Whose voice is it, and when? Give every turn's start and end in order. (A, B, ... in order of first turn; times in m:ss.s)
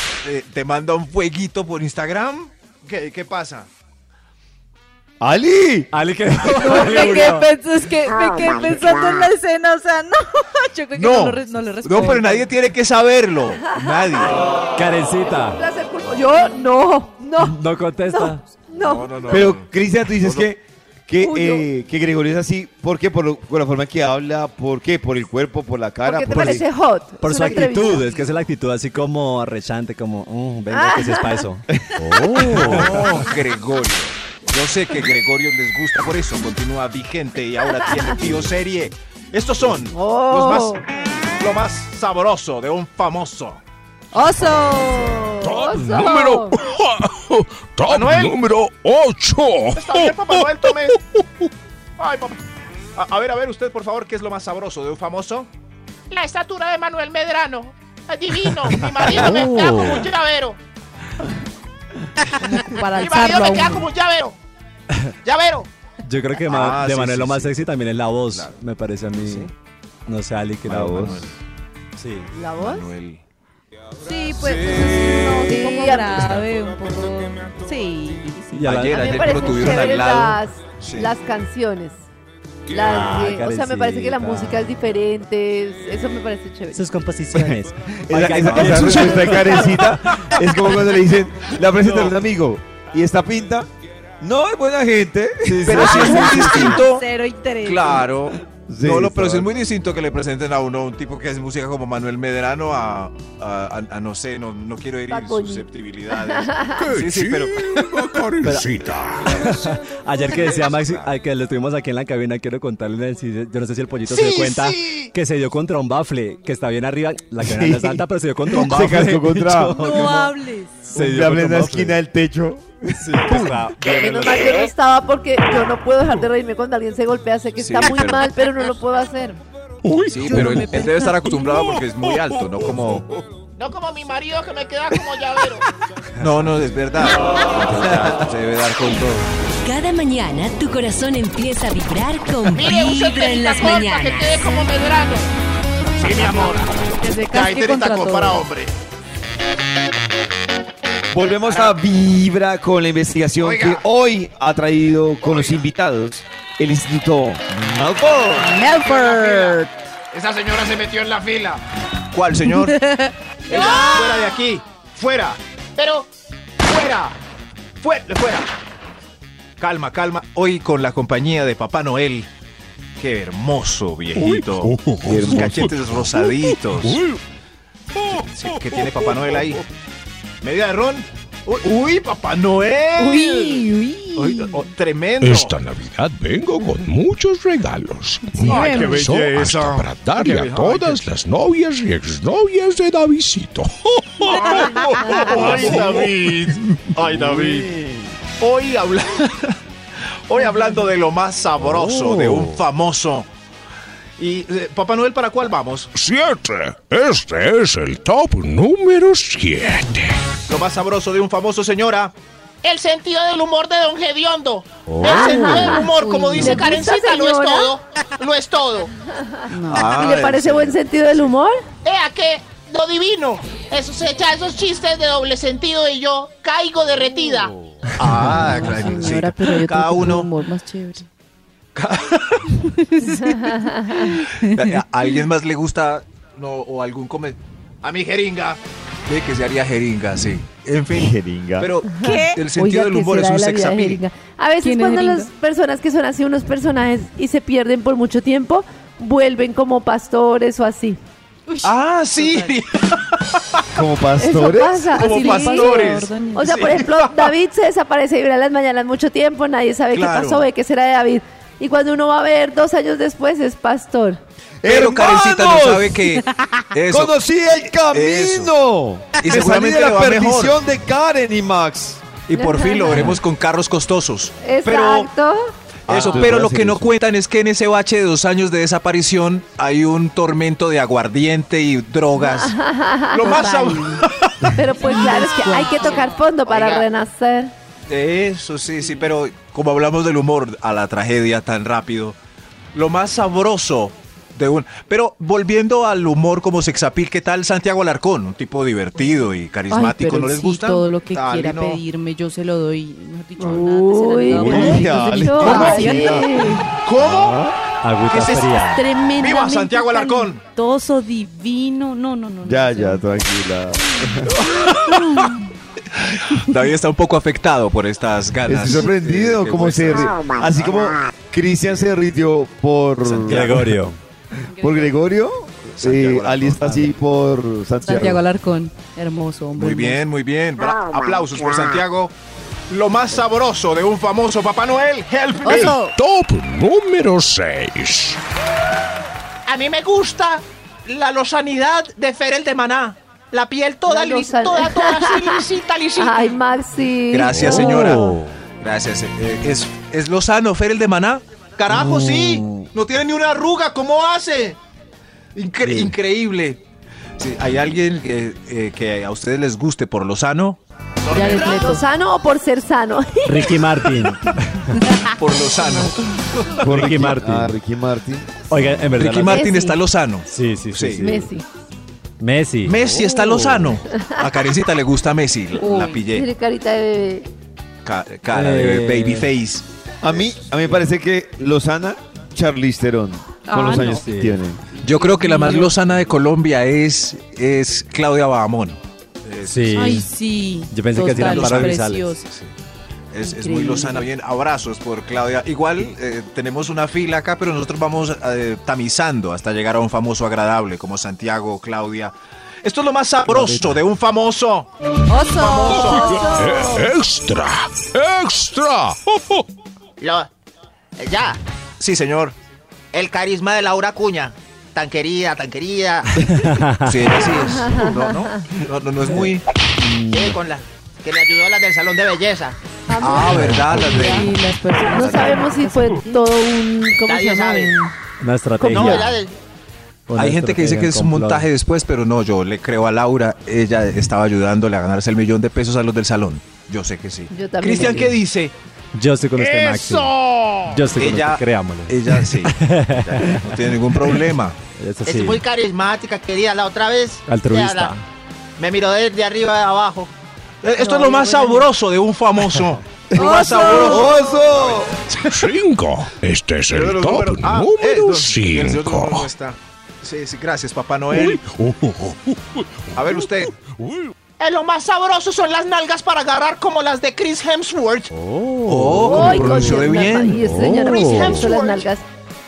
0:00.2-0:03.7 A
0:05.2-0:05.9 B
0:05.9-0:07.5 C
0:06.6-0:12.5 D
0:06.9-0:07.3 E
0:10.9-0:14.4 A
0:13.7-0:14.2 E
0:14.8-0:15.6 C
0:15.4-0:19.5 E
0:17.4-0:18.4 C
0:18.7-0:20.5 A
0:19.3-0:26.6 B
0:21.2-0:21.6 E
0:26.0-0:28.2 E
0:27.2-0:33.2 C
0:30.7-0:31.5 E
0:31.9-0:33.1 B
0:32.4-0:40.8 A
0:39.9-0:40.8 E
0:41.4-0:43.6 A
0:44.1-0:45.1 D
0:44.1-0:46.6 E
0:45.4-0:51.2 F
0:47.9-0:48.3 A
0:49.8-0:50.7 G
0:50.1-0:50.4 A
0:52.0-0:52.3 A
0:52.9-0:55.5 A
0:56.1-1:00.6 G
0:58.8-0:59.4 A
0:59.0-1:00.0 C
1:02.5-1:03.9 D
1:03.0-1:04.4 G
1:05.2-1:05.7 G
1:06.0-1:09.5 C
1:06.4-1:07.7 A
1:08.3-1:08.5 A
1:09.2-1:09.5 A
1:10.1-1:11.2 C
1:10.7-1:11.2 B
1:10.9-1:11.3 A
1:12.0-1:12.3 C
1:12.3-1:12.9 E
1:12.5-1:13.2 A
1:14.0-1:19.2 D
1:14.3-1:15.4 A
1:15.5-1:16.3 E
1:18.5-1:19.1 C
1:18.6-1:21.1 A
1:18.9-1:22.0 E
1:22.7-1:26.8 E
1:22.8-1:24.7 C
1:26.7-1:29.8 C
1:27.3-1:33.7 B
1:28.4-1:29.8 A
1:34.2-1:36.8 B
1:35.6-1:37.0 A
1:35.9-1:38.1 D
1:37.6-1:48.2 A
1:38.7-1:39.5 B
1:45.1-1:46.9 E
1:46.8-1:49.5 F
1:48.4-1:48.7 C
1:49.3-2:00.3 C
1:50.2-1:51.1 A
1:54.1-1:54.8 A
1:57.4-1:59.9 B
1:59.6-2:00.8 D
2:00.9-2:02.0 C
2:00.9-2:03.2 B
2:03.0-2:04.7 C
2:03.3-2:04.5 A
2:03.9-2:09.4 E
2:07.6-2:08.3 A
2:09.8-2:13.0 F
2:10.1-2:13.0 A
2:10.2-2:11.4 D
2:13.6-2:15.6 G
2:16.2-2:19.2 A
2:19.6-2:24.6 H
2:22.4-2:25.3 G
2:26.0-2:26.7 G
2:26.1-2:28.4 D
2:27.3-2:28.6 G
2:31.1-2:38.6 B
2:33.4-2:33.8 G
2:38.3-2:39.8 D
2:38.8-2:39.6 G
2:40.1-2:41.6 G
2:42.1-2:42.8 A
2:42.5-2:43.8 D
2:43.5-2:44.4 G
2:43.5-2:45.4 A
2:45.8-2:46.1 G
2:46.6-2:47.2 G
2:47.8-2:48.4 A
2:47.8-2:48.4 G
2:49.6-2:52.3 A
2:53.0-2:57.0 A
2:54.1-2:57.2 F
2:55.0-2:55.7 B
2:58.0-2:59.6 F
2:58.3-2:59.6 A
3:00.4-3:03.6 A
3:03.0-3:04.5 D
3:04.1-3:05.6 A
3:05.2-3:16.5 F
3:08.3-3:09.1 D
3:08.4-3:11.0 A
3:14.3-3:17.7 A
3:15.0-3:15.3 E
3:16.9-3:18.2 B
3:18.4-3:19.6 A
3:20.3-3:23.3 A
3:21.7-3:22.5 C
3:24.2-3:25.9 A
3:25.9-3:30.2 F
3:30.5-3:32.1 A
3:32.6-3:38.9 G
3:35.0-3:37.7 E
3:35.1-3:35.8 A
3:35.7-3:36.9 D
3:39.2-3:41.6 E
3:39.5-3:39.9 D
3:39.7-3:41.3 A
3:41.8-3:47.5 G
3:47.9-3:50.3 A
3:48.2-3:51.1 D
3:51.7-3:52.5 A
3:52.6-3:54.8 D
3:53.1-3:54.1 E
3:54.4-4:04.0 A
4:00.9-4:01.7 B
4:01.9-4:11.0 E
4:02.0-4:02.4 D
4:04.6-4:05.3 D
4:11.5-4:12.6 D
4:11.6-4:12.7 A
4:13.3-4:13.6 A
4:13.7-4:14.9 B
4:14.2-4:24.2 E
4:14.9-4:17.3 A
4:15.0-4:16.8 D
4:19.9-4:20.5 A
4:24.6-4:26.0 B
4:24.6-4:27.1 A
4:26.8-4:32.1 B
4:27.9-4:28.5 A
4:29.2-4:30.6 A
4:32.3-4:35.1 A
4:32.3-4:33.1 E
4:34.4-4:35.5 E
4:35.9-4:36.9 B
4:35.9-4:42.6 A
4:42.2-4:44.0 E
4:43.1-4:44.5 A
4:44.5-4:47.5 E
4:44.8-4:46.2 D
4:46.4-4:46.8 G
4:47.9-4:52.2 A
4:52.7-5:01.8 A
4:59.7-5:06.2 D
5:03.4-5:06.7 E
5:04.3-5:07.6 B
5:05.4-5:05.8 A
5:06.8-5:07.3 A
5:07.8-5:08.8 C
5:08.1-5:08.6 A
5:08.6-5:13.0 D
5:09.2-5:10.4 A
5:12.4-5:14.4 B
5:14.4-5:15.3 A
5:14.9-5:15.4 D
5:15.9-5:20.6 A
5:18.4-5:23.7 B
5:23.0-5:23.6 A
5:23.3-5:24.0 C
5:24.5-5:24.9 D
5:24.6-5:28.2 B
5:25.7-5:26.9 A
5:27.8-5:30.0 D
5:29.5-5:32.1 A
5:32.7-5:35.7 A
5:35.0-5:35.4 G
5:35.4-5:35.9 D
5:35.6-5:38.2 F
5:39.5-5:46.3 G
5:43.8-5:48.1 E
5:47.1-5:54.6 A
5:47.3-5:48.3 C
5:51.7-5:52.6 C
5:51.9-5:52.3 G
5:53.8-5:54.3 G
5:55.3-5:56.6 A
5:55.6-5:56.0 C
5:57.2-6:00.6 A
6:01.0-6:01.7 G
6:01.1-6:01.8 D
6:01.3-6:04.0 E
6:03.2-6:04.7 C
6:05.2-6:06.8 A
6:06.6-6:08.9 B
6:06.6-6:07.5 C
6:08.5-6:09.5 C
6:08.9-6:11.1 A
6:09.2-6:09.8 E
6:10.3-6:11.3 C
6:11.0-6:11.4 E
6:12.2-6:13.8 C
6:12.6-6:16.3 A
6:13.9-6:14.3 E
6:15.6-6:16.0 D
6:16.1-6:17.3 E
6:17.8-6:20.4 A
6:18.3-6:19.3 C
6:20.0-6:24.6 B
6:23.5-6:24.0 D
6:23.6-6:24.4 C
6:24.7-6:25.7 D
6:24.8-6:30.0 A
6:29.4-6:30.1 C
6:29.7-6:32.2 D
6:30.7-6:32.0 C
6:31.1-6:32.5 A
6:33.1-6:44.7 A
6:33.2-6:34.1 D
6:43.2-6:43.8 C
6:45.1-6:46.2 D
6:45.1-6:46.9 E
6:45.3-6:46.3 G
6:45.7-6:49.4 F
6:50.0-6:50.3 G
6:51.0-6:51.4 G
6:51.8-6:52.4 A
6:52.9-6:56.1 G
6:56.2-6:56.9 C
6:56.8-6:59.4 A
6:57.6-6:58.2 E
6:59.8-7:00.4 C
7:00.1-7:02.6 G
7:02.9-7:04.3 E
7:03.0-7:04.4 A
7:03.9-7:06.2 D
7:04.9-7:07.9 E
7:04.9-7:05.4 A
7:07.0-7:07.7 G
7:08.2-7:09.1 C
7:08.6-7:09.1 E
7:08.7-7:09.0 A
7:08.8-7:09.3 G
7:10.1-7:11.5 C
7:10.1-7:18.5 A
7:17.3-7:18.2 E
7:18.9-7:20.1 C
7:19.4-7:20.8 G
7:20.7-7:23.5 C
7:21.0-7:24.6 A
7:24.8-7:25.4 C
7:25.0-7:27.9 G
7:27.3-7:28.0 C
7:28.6-7:30.1 G
7:30.6-7:31.7 G
7:30.7-7:35.5 A
7:33.1-7:35.0 B
7:33.2-7:33.9 E
7:33.4-7:34.0 D
7:35.3-7:39.3 F
7:36.7-7:41.4 A
7:41.1-7:44.1 F
7:42.9-7:43.5 A
7:44.4-7:48.1 G
7:48.1-7:49.7 C
7:48.6-7:50.7 A
7:49.0-7:52.0 E
7:50.3-7:51.5 C
7:50.7-7:51.9 G